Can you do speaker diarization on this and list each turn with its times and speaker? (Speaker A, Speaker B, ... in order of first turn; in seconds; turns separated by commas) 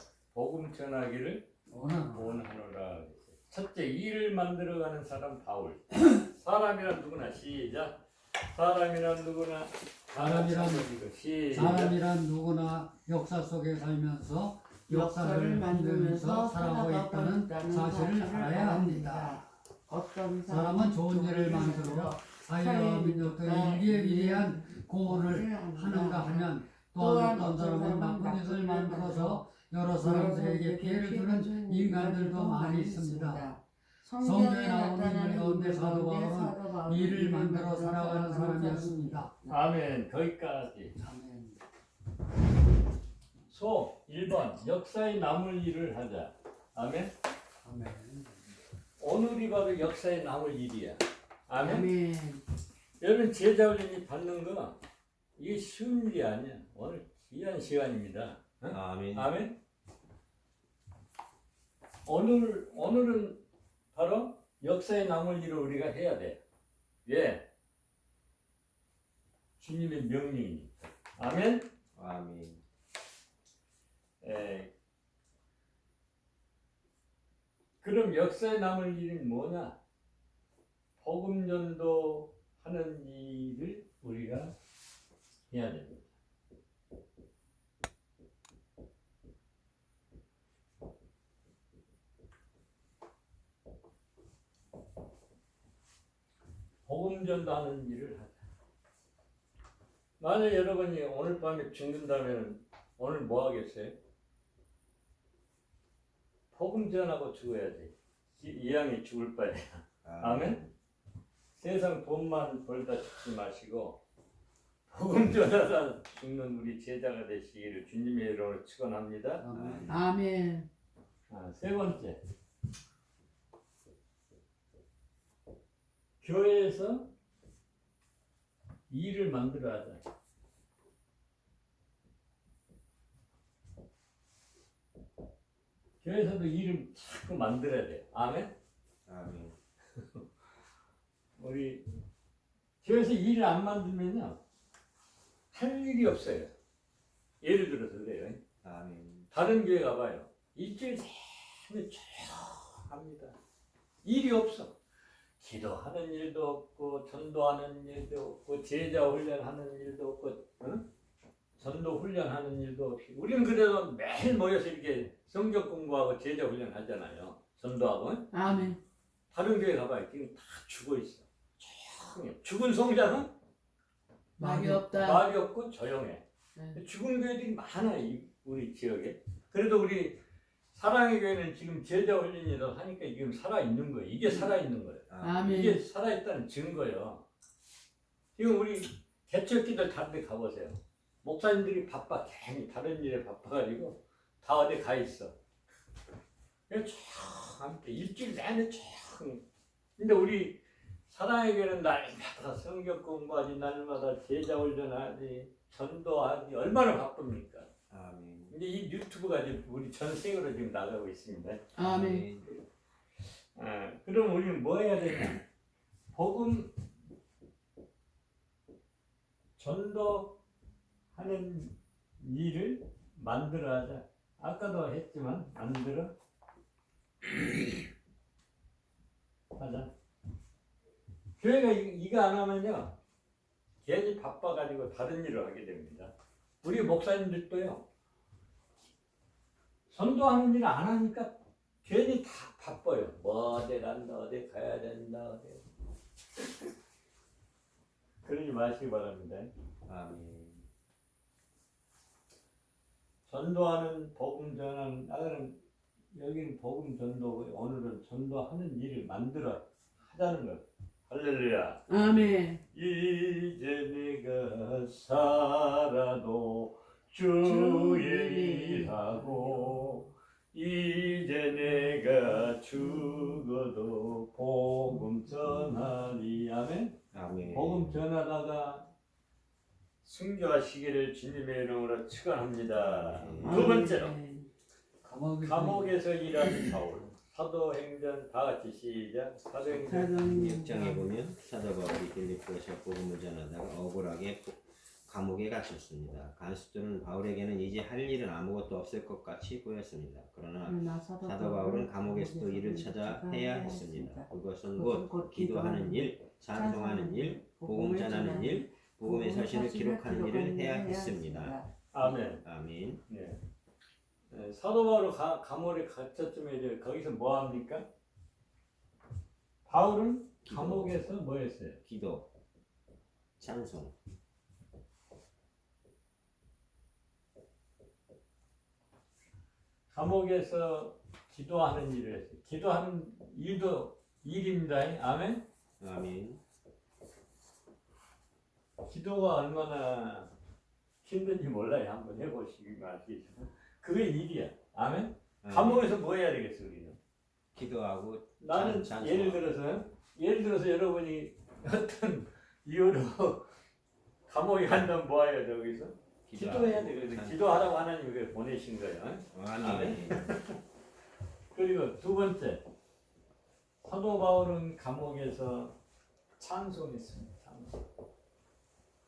Speaker A: 0.3-1.5, Speaker B: 1.7-2.3, Speaker A: 2.0-12.1, Speaker B: 10.2-10.9, Speaker B: 11.5-19.4, Speaker C: 14.9-29.5, Speaker B: 20.5-33.4, Speaker C: 30.0-39.6, Speaker B: 34.2-39.3, Speaker A: 39.5-41.0, Speaker B: 41.0-41.6, Speaker A: 43.5-47.1, Speaker B: 47.6-48.4, Speaker A: 49.0-51.9, Speaker C: 51.5-52.4, Speaker A: 53.0-54.8, Speaker A: 55.4-59.6, Speaker D: 58.7-59.3, Speaker A: 62.0-66.4, Speaker A: 67.1-67.5, Speaker A: 69.6-71.7, Speaker D: 72.0-72.6, Speaker A: 74.2-74.7, Speaker A: 77.8-79.8, Speaker A: 81.0-84.5, Speaker A: 85.5-86.1, Speaker A: 96.9-98.4, Speaker A: 100.2-104.0, Speaker A: 106.5-110.6, Speaker D: 110.0-110.7, Speaker A: 111.5-114.0, Speaker A: 114.9-119.4, Speaker B: 119.4-119.9, Speaker D: 119.5-120.1, Speaker C: 119.9-120.7, Speaker A: 121.3-122.2, Speaker A: 126.2-127.1, Speaker A: 128.9-130.0, Speaker A: 136.0-138.5, Speaker D: 139.1-139.6, Speaker A: 140.0-140.2, Speaker A: 141.4-141.9, Speaker A: 142.8-144.4, Speaker A: 145.5-146.5, Speaker A: 147.4-148.4, Speaker D: 148.6-149.3, Speaker A: 149.3-153.4, Speaker A: 154.0-154.8, Speaker A: 155.4-160.8, Speaker A: 161.6-168.6, Speaker C: 168.3-168.8, Speaker A: 169.3-173.3, Speaker C: 174.4-175.3, Speaker A: 174.4-176.2, Speaker A: 176.7-180.2, Speaker A: 180.7-187.2, Speaker D: 185.1-185.5, Speaker C: 185.2-185.8, Speaker A: 188.4-195.3, Speaker A: 196.7-199.4, Speaker A: 200.0-207.7, Speaker D: 207.9-208.6, Speaker A: 208.5-211.7, Speaker C: 211.7-212.3, Speaker D: 211.8-212.5, Speaker A: 213.6-215.4, Speaker A: 216.1-216.7, Speaker A: 219.6-220.4, Speaker A: 221.1-226.1, Speaker A: 229.6-229.9, Speaker A: 231.4-233.0, Speaker A: 233.8-237.8, Speaker A: 239.9-245.6, Speaker A: 248.2-249.5, Speaker D: 249.9-250.6, Speaker A: 253.3-255.6, Speaker A: 256.1-261.9, Speaker C: 261.9-262.6, Speaker A: 262.7-278.9, Speaker C: 267.4-270.0, Speaker D: 277.1-277.9, Speaker A: 280.0-284.1, Speaker D: 282.7-283.9, Speaker C: 283.4-284.5, Speaker B: 285.0-286.0, Speaker A: 285.4-290.1, Speaker C: 289.8-291.1, Speaker D: 290.2-313.0, Speaker C: 300.6-311.7, Speaker A: 311.9-312.5, Speaker A: 313.1-313.4, Speaker A: 314.3-317.9, Speaker A: 319.7-321.8, Speaker D: 320.4-321.0, Speaker D: 321.8-322.3, Speaker D: 323.4-323.9, Speaker A: 329.9-335.4, Speaker D: 335.8-336.4, Speaker A: 338.8-340.3, Speaker A: 341.0-347.0, Speaker D: 345.4-345.9, Speaker D: 347.5-349.5, Speaker A: 348.4-353.5, Speaker A: 354.3-360.6, Speaker D: 356.3-357.4, Speaker D: 359.3-360.3, Speaker A: 361.5-362.6, Speaker A: 363.8-365.8, Speaker A: 366.4-367.8